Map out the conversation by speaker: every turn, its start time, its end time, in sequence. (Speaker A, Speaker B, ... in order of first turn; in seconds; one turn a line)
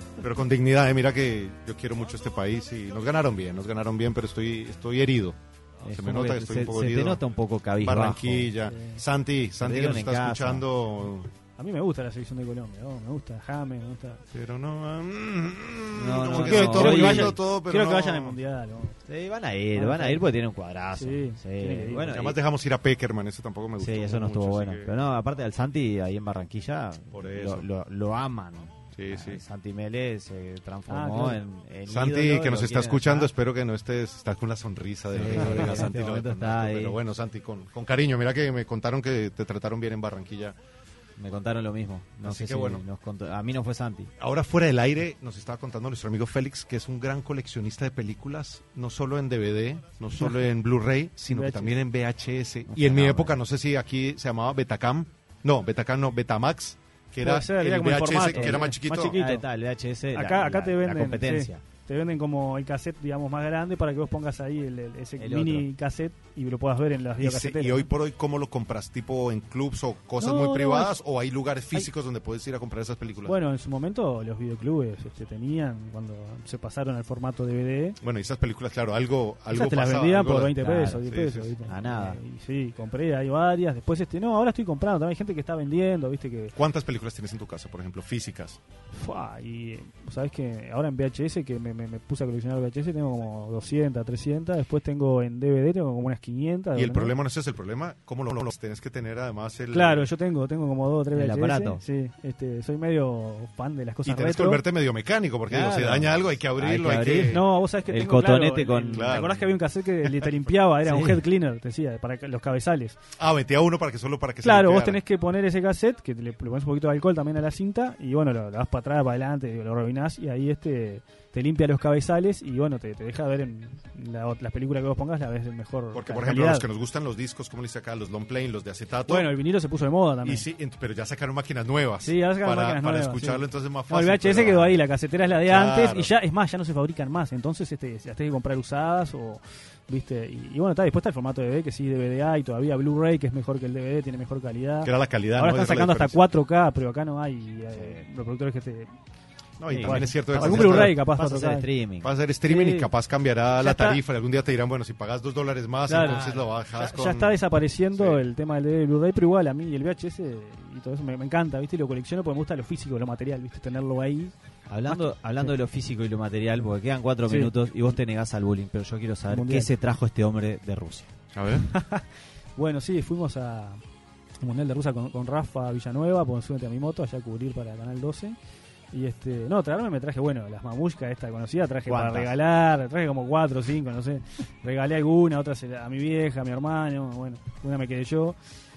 Speaker A: 0.2-7.2
Speaker B: 5.8-8.5
Speaker A: 7.8-11.3
Speaker C: 8.7-9.0
Speaker B: 9.6-10.6
Speaker C: 11.6-14.2
Speaker A: 14.3-18.4
Speaker B: 15.9-17.4
Speaker C: 16.3-19.0
Speaker B: 19.1-22.4
Speaker C: 19.7-20.2
Speaker C: 20.9-22.1
Speaker A: 22.0-24.9
Speaker B: 23.8-33.3
Speaker A: 27.1-27.7
Speaker A: 28.9-29.4
Speaker C: 30.9-31.4
Speaker A: 31.9-40.5
Speaker B: 35.1-37.0
Speaker B: 41.2-44.1
Speaker A: 42.2-42.8
Speaker A: 44.2-59.2
Speaker C: 51.3-51.7
Speaker B: 52.7-53.4
Speaker C: 57.2-59.4
Speaker B: 58.3-61.6
Speaker C: 60.1-67.9
Speaker B: 65.2-65.7
Speaker A: 67.2-73.3
Speaker C: 70.2-70.9
Speaker C: 73.2-78.0
Speaker A: 78.0-81.5
Speaker C: 79.5-86.5
Speaker B: 80.6-81.0
Speaker B: 81.7-82.2
Speaker A: 86.5-88.6
Speaker C: 88.9-97.1
Speaker A: 96.7-100.1
Speaker C: 99.7-104.6
Speaker B: 101.1-101.8
Speaker A: 104.0-107.5
Speaker B: 105.5-109.3
Speaker C: 107.2-113.0
Speaker A: 108.9-109.5
Speaker B: 110.8-111.2
Speaker A: 113.2-115.0
Speaker C: 114.4-126.7
Speaker A: 125.9-129.3
Speaker C: 129.1-130.4
Speaker A: 130.2-134.8
Speaker C: 132.0-148.9
Speaker A: 135.4-136.1
Speaker A: 144.8-146.2
Speaker B: 147.8-148.0
Speaker A: 149.6-151.0
Speaker C: 149.7-151.7
Speaker B: 149.7-152.1
Speaker A: 152.0-157.4
Speaker C: 152.4-152.9
Speaker C: 153.6-154.0
Speaker C: 155.9-164.3
Speaker B: 155.9-156.4
Speaker A: 157.9-158.2
Speaker B: 164.7-171.1
Speaker C: 164.9-165.5
Speaker C: 167.3-167.5
Speaker C: 169.3-169.7
Speaker A: 171.3-171.7
Speaker C: 171.5-173.8
Speaker C: 174.4-178.4
Speaker C: 178.9-188.4
Speaker B: 181.9-182.4